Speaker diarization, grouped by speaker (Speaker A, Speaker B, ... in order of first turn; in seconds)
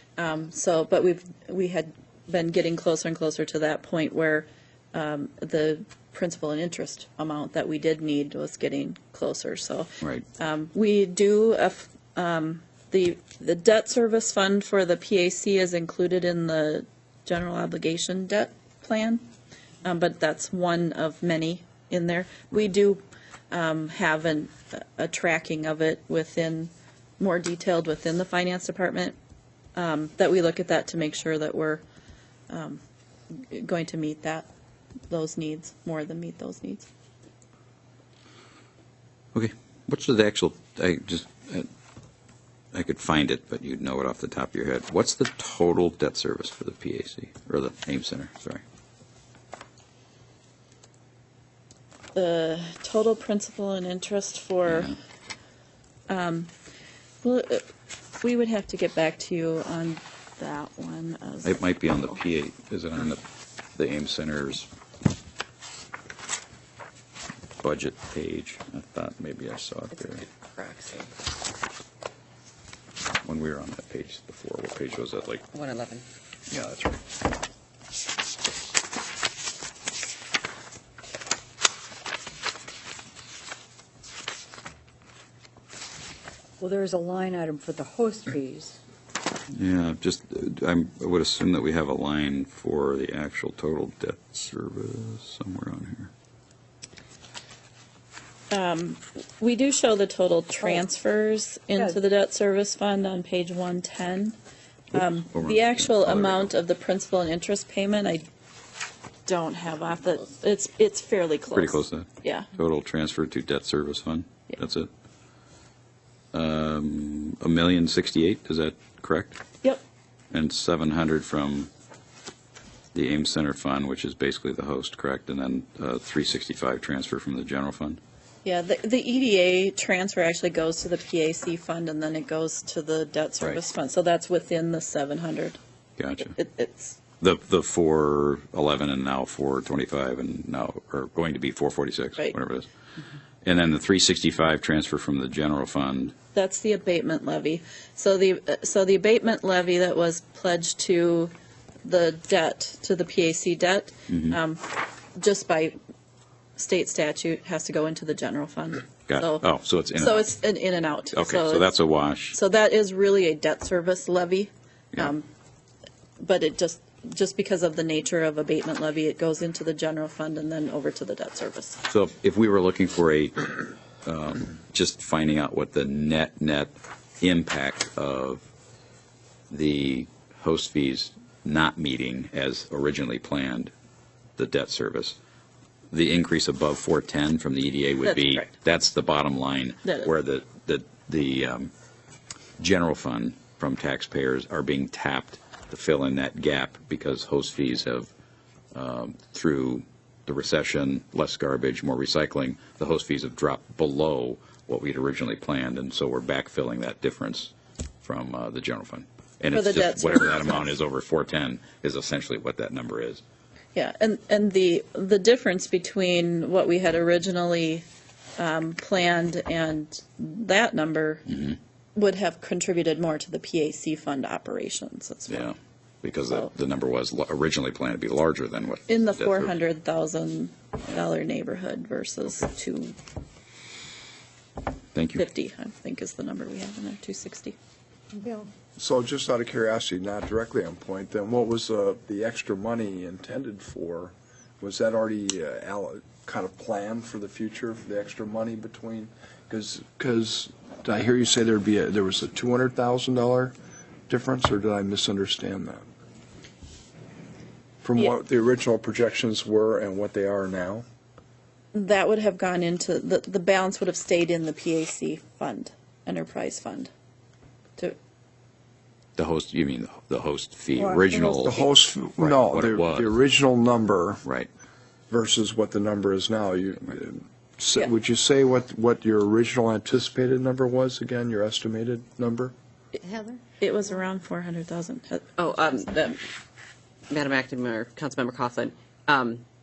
Speaker A: 0.2-19.2, 19.8-29.2, 29.7-31.8, 32.5-32.8, 33.4-34.5, 35.1-36.9, 52.1-54.9, 56.1-56.5, 57.2-57.7, 58.2-62.0, 98.5-104.3, 104.9-108.2, 109.2-112.5, 128.4-135.6, 136.2-137.0, 146.3-151.3, 151.8-155.8, 156.6-159.4, 160.0-161.7, 162.3-165.2, 166.2-171.8, 188.0-188.4, 189.8-190.1, 209.5-210.7, 213.7-217.8, 218.4-221.3, 221.9-225.5, 228.9-232.9, 235.2-237.6, 261.7-266.9, 283.6-285.6
Speaker B: 39.3-41.7, 42.7-48.6, 61.4-63.2, 63.7-64.7, 67.6-70.3, 73.2-75.4, 76.5-77.0, 89.5-96.1, 104.9-106.5, 111.5-114.9, 116.3-119.4, 120.3-121.7, 122.9-128.0, 136.0-136.4, 137.2-142.7, 143.4-146.1, 154.1-154.4, 159.1-160.3, 161.1-162.4, 171.9-178.4, 179.5-183.7, 184.4-185.2, 185.9-191.7, 192.6-198.1, 198.7-207.5, 208.0-213.2, 225.3-229.5, 234.9-235.3, 269.2-271.6, 272.2-273.1
Speaker C: 70.3-71.1, 75.5-76.0, 285.4-286.2, 287.1-289.4
Speaker D: 86.6-88.8, 271.0-271.4
Speaker E: 238.8-253.5, 254.1-255.8, 257.8-260.8, 271.4-274.2, 275.1-282.5